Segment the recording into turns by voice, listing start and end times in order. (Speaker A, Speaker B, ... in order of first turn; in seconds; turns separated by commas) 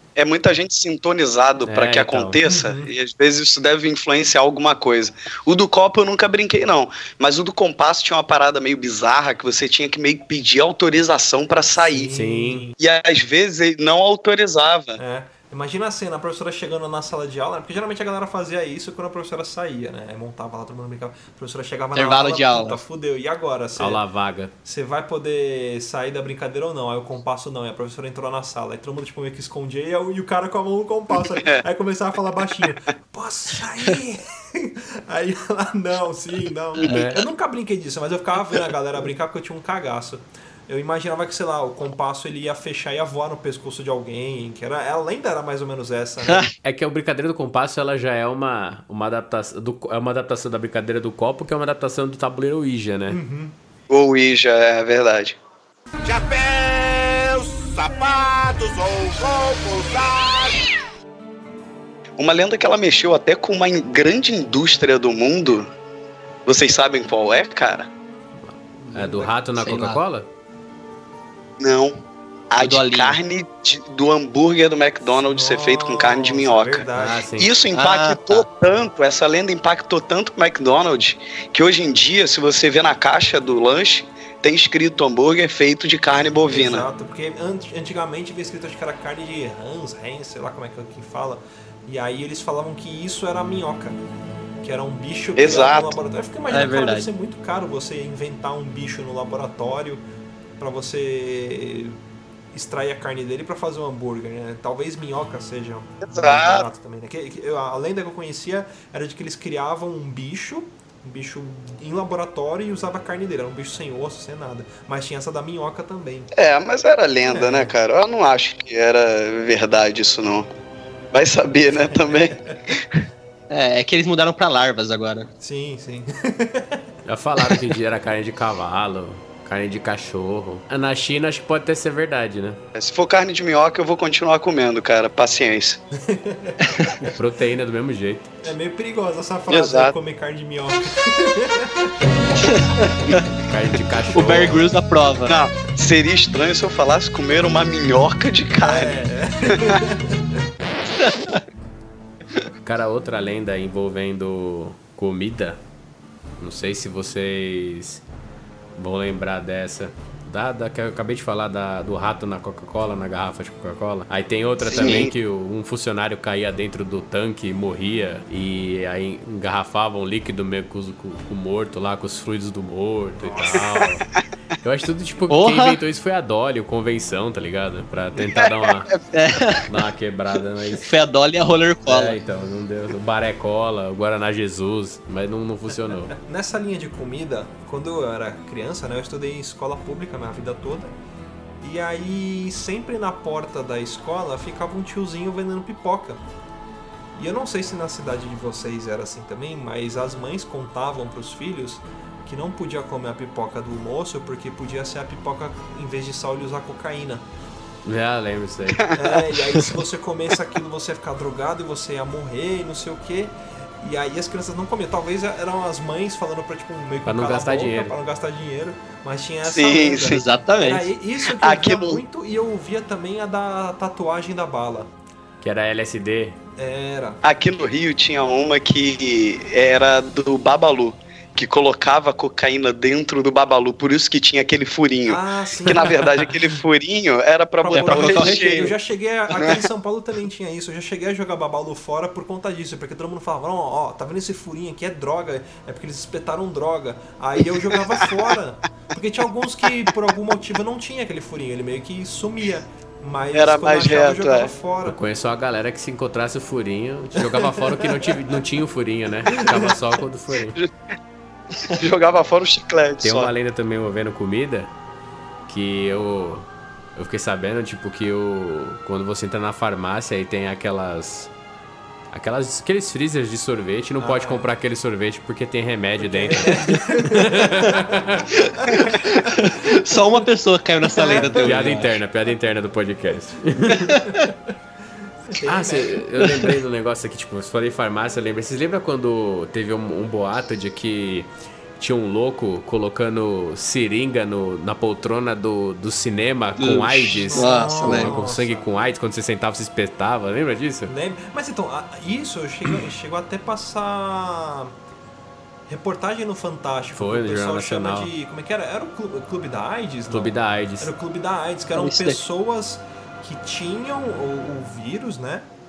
Speaker A: 0.1-12.1, Speaker B: 1.6-2.4, Speaker C: 2.5-2.9, Speaker C: 11.8-12.7, Speaker B: 12.1-12.7, Speaker A: 12.8-15.0, Speaker C: 15.0-24.0, Speaker D: 21.9-22.8, Speaker B: 23.8-24.5, Speaker C: 24.6-46.5, Speaker A: 36.8-37.1, Speaker B: 36.9-37.2, Speaker B: 46.6-53.2, Speaker C: 53.1-53.5, Speaker A: 53.9-55.4, Speaker E: 56.0-60.6, Speaker A: 62.2-65.7, Speaker A: 66.5-67.9, Speaker B: 68.5-70.3, Speaker C: 68.8-69.3, Speaker D: 69.6-70.0, Speaker A: 71.6-72.0, Speaker A: 72.5-76.8, Speaker D: 72.6-73.2, Speaker C: 75.2-77.2, Speaker B: 77.0-77.5, Speaker A: 77.4-86.8, Speaker D: 77.7-78.4, Speaker C: 86.4-94.0, Speaker C: 94.6-100.0, Speaker A: 95.4-95.9, Speaker D: 96.5-97.1, Speaker C: 100.6-102.0, Speaker C: 102.5-116.3, Speaker A: 106.0-106.7, Speaker A: 116.3-120.5, Speaker C: 117.3-117.7, Speaker A: 121.1-123.0, Speaker C: 121.9-122.5, Speaker D: 123.5-125.3, Speaker C: 125.4-126.8, Speaker B: 127.0-132.6, Speaker A: 132.7-135.8, Speaker C: 136.0-136.6, Speaker D: 136.6-137.1, Speaker B: 137.1-138.3, Speaker C: 138.4-141.9, Speaker A: 139.5-139.9, Speaker D: 142.3-143.2, Speaker B: 143.4-144.7, Speaker D: 144.1-145.3, Speaker A: 145.3-149.8, Speaker C: 148.6-150.3, Speaker D: 150.9-151.4, Speaker B: 152.6-155.6, Speaker B: 156.4-158.0, Speaker B: 158.8-174.1, Speaker A: 164.7-165.1, Speaker C: 173.2-173.9, Speaker B: 174.6-178.9, Speaker D: 175.3-175.8, Speaker A: 178.3-178.9, Speaker D: 179.1-179.7, Speaker B: 179.7-180.9, Speaker D: 180.7-182.2, Speaker B: 181.9-186.1, Speaker C: 186.1-190.9, Speaker C: 191.6-196.2, Speaker C: 197.2-207.2, Speaker B: 207.8-208.8, Speaker A: 208.7-209.1, Speaker C: 208.9-224.9, Speaker B: 217.1-217.9, Speaker A: 219.4-220.2, Speaker D: 220.0-220.9, Speaker A: 221.3-222.0, Speaker B: 225.4-226.4, Speaker C: 226.6-227.2, Speaker A: 227.2-238.7, Speaker C: 235.1-236.1, Speaker C: 237.6-255.0, Speaker D: 237.7-238.7, Speaker A: 239.3-239.6, Speaker A: 253.3-254.5, Speaker B: 254.8-260.6, Speaker C: 257.2-258.1, Speaker C: 259.3-259.7, Speaker A: 261.6-263.3, Speaker B: 263.0-264.7, Speaker B: 265.5-271.3, Speaker B: 272.1-278.3, Speaker C: 274.0-274.5, Speaker C: 276.0-277.9, Speaker C: 278.6-279.3, Speaker D: 278.7-281.9, Speaker C: 281.0-281.9, Speaker B: 281.2-284.0, Speaker C: 283.7-284.3, Speaker C: 285.3-286.1, Speaker B: 285.4-300.9, Speaker D: 286.2-286.5, Speaker D: 296.6-298.1, Speaker C: 297.3-298.6, Speaker C: 300.9-304.7, Speaker C: 305.7-315.5, Speaker B: 307.0-308.1, Speaker B: 310.1-310.9, Speaker D: 311.7-312.2